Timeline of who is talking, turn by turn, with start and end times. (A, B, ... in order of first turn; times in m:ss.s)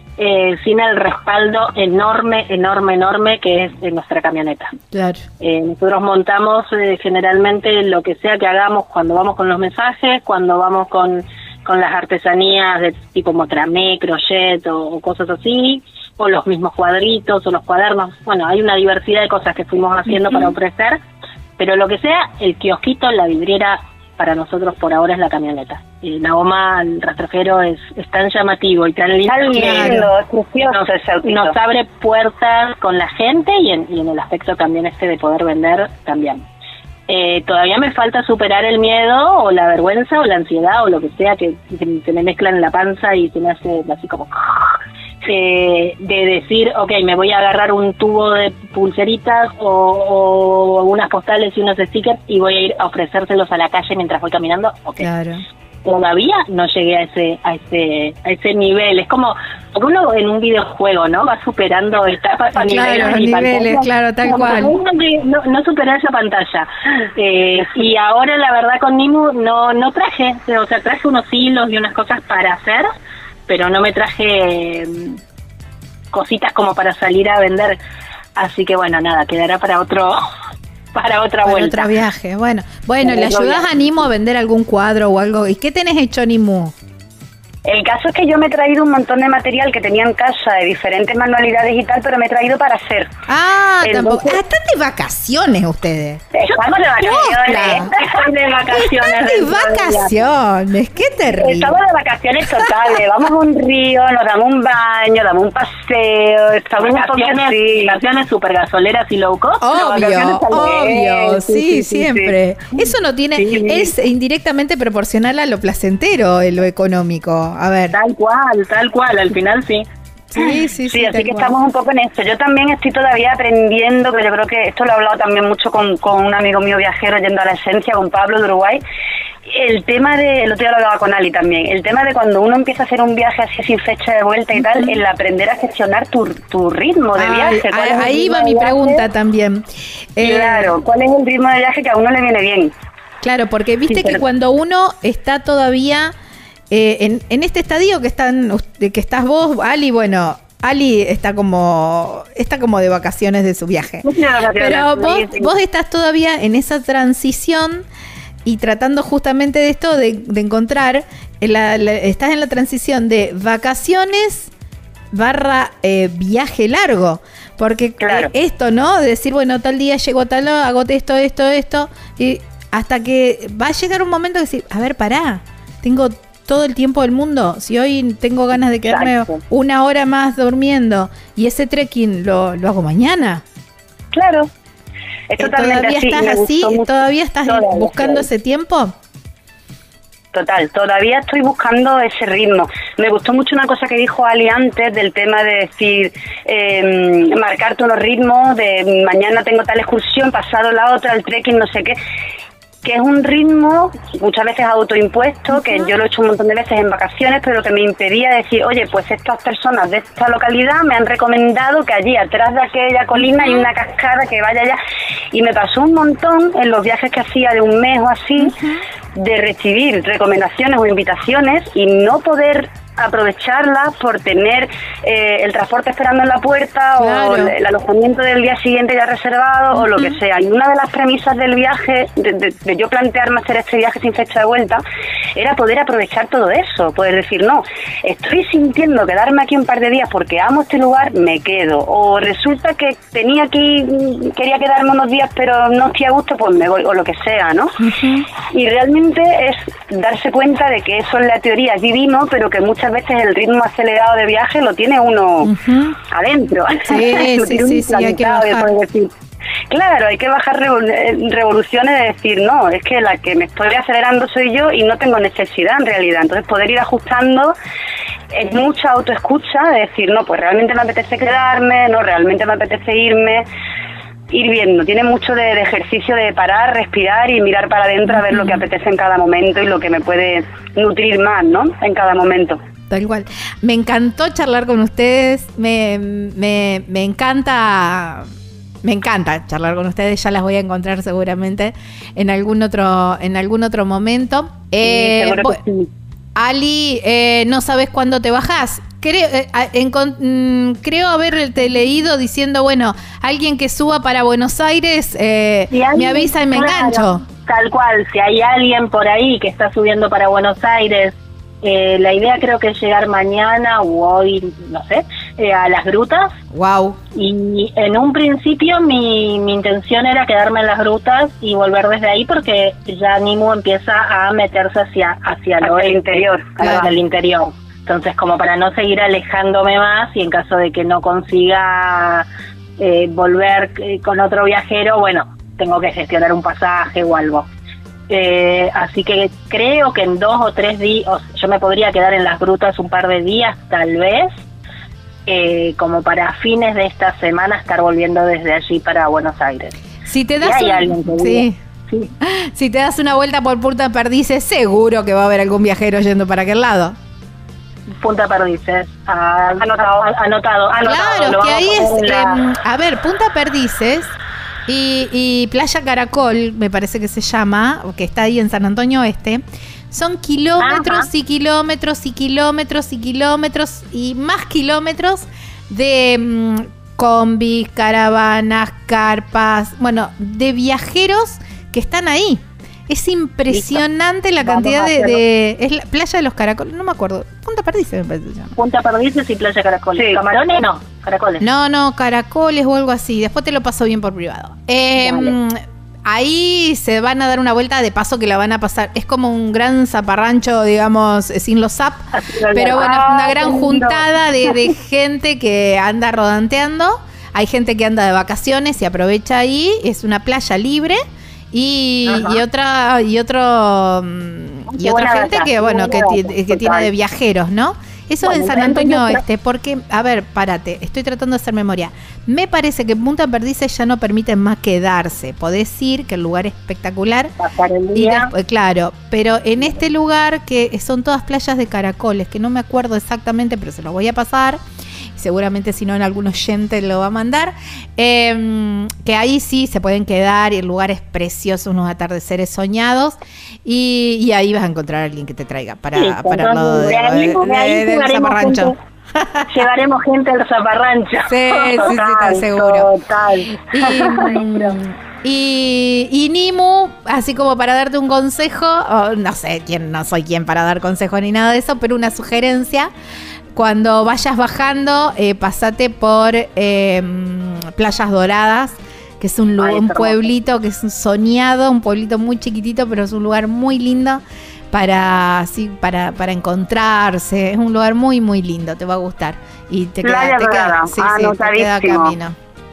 0:00.2-0:04.7 A
0:04.9-0:05.2 B
0:05.4-0:21.0 A
0:21.6-0:30.1 A
0:29.3-0:31.6 C
0:29.6-0:30.0 B
0:30.7-0:36.4 A
0:37.1-0:55.1 A
0:55.0-0:55.4 B
0:55.8-1:12.9 A
1:02.6-1:04.7 B
1:13.5-1:15.2 A
1:16.1-1:17.8 A
1:18.4-1:20.2 A
1:20.9-1:21.9 A
1:21.4-1:26.7 B
1:23.0-1:23.6 A
1:27.6-1:33.1 C
1:33.3-1:36.3 B
1:33.8-1:34.4 C
1:36.3-1:38.2 C
1:36.4-1:40.3 A
1:37.0-1:37.9 B
1:38.8-1:41.8 B
1:41.4-1:48.0 C
1:46.8-1:52.1 A
1:49.6-1:58.0 B
1:53.4-1:53.9 C
1:57.9-1:59.8 A
2:00.3-2:01.6 B
2:00.4-2:08.8 C
2:09.5-2:19.1 C
2:14.5-2:15.0 B
2:17.2-2:19.6 B
2:20.2-2:20.8 B
2:20.2-2:22.7 C
2:23.2-2:26.1 B
2:23.9-2:24.2 C
2:26.7-2:37.8 B
2:34.0-2:35.5 C
2:38.4-2:44.5 B
2:45.1-3:03.4 B
2:48.0-2:48.3 C
2:58.9-2:59.2 C
3:04.1-3:04.5 C
3:05.3-3:08.3 C
3:05.4-3:08.9 B
3:10.3-3:22.0 C
3:22.8-3:34.8 C
3:25.6-3:25.8 B
3:33.2-3:33.6 B
3:35.3-3:38.6 C
3:38.4-3:38.8 B
3:39.1-3:54.8 C
3:47.0-3:47.5 B
3:49.7-3:50.2 B
3:55.4-4:07.8 C
4:07.8-4:08.2 B
4:08.4-4:15.5 C
4:15.4-4:16.0 B
4:16.1-4:19.1 C
4:16.8-4:18.7 B
4:19.7-4:27.5 C
4:28.3-4:33.4 C
4:34.3-4:42.6 C
4:38.1-4:38.6 B
4:42.9-4:48.3 B
4:48.8-4:55.6 B
4:54.8-4:55.9 C
4:56.4-5:07.2 B
5:05.7-5:16.3 A
5:16.5-5:17.0 B
5:17.2-5:32.2 A
5:25.6-5:26.9 C
5:26.6-5:26.9 B
5:32.8-5:37.5 A
5:38.1-5:44.3 A
5:45.3-5:49.7 A
5:50.1-5:51.6 B
5:50.4-5:52.1 A
5:52.2-5:57.0 B
5:57.9-6:02.4 A
5:59.6-6:00.1 C
6:00.7-6:01.0 C
6:00.8-6:04.2 B
6:04.7-6:28.6 B
6:10.6-6:11.1 A
6:23.5-6:23.8 A
6:24.4-6:25.2 A
6:28.6-6:31.4 A
6:31.4-6:51.0 B
6:35.0-6:35.3 A
6:42.1-6:44.1 A
6:51.5-7:07.3 B
6:52.0-6:52.4 A
6:54.7-6:56.9 A
6:58.2-6:59.2 A
7:07.4-7:08.3 A
7:07.9-7:14.6 B
7:15.2-7:29.6 B
7:25.9-7:28.7 A
7:29.5-7:34.8 A
7:31.3-7:32.9 B
7:33.6-7:42.9 B
7:43.5-8:02.4 B
7:49.6-7:50.2 A
8:00.0-8:02.2 C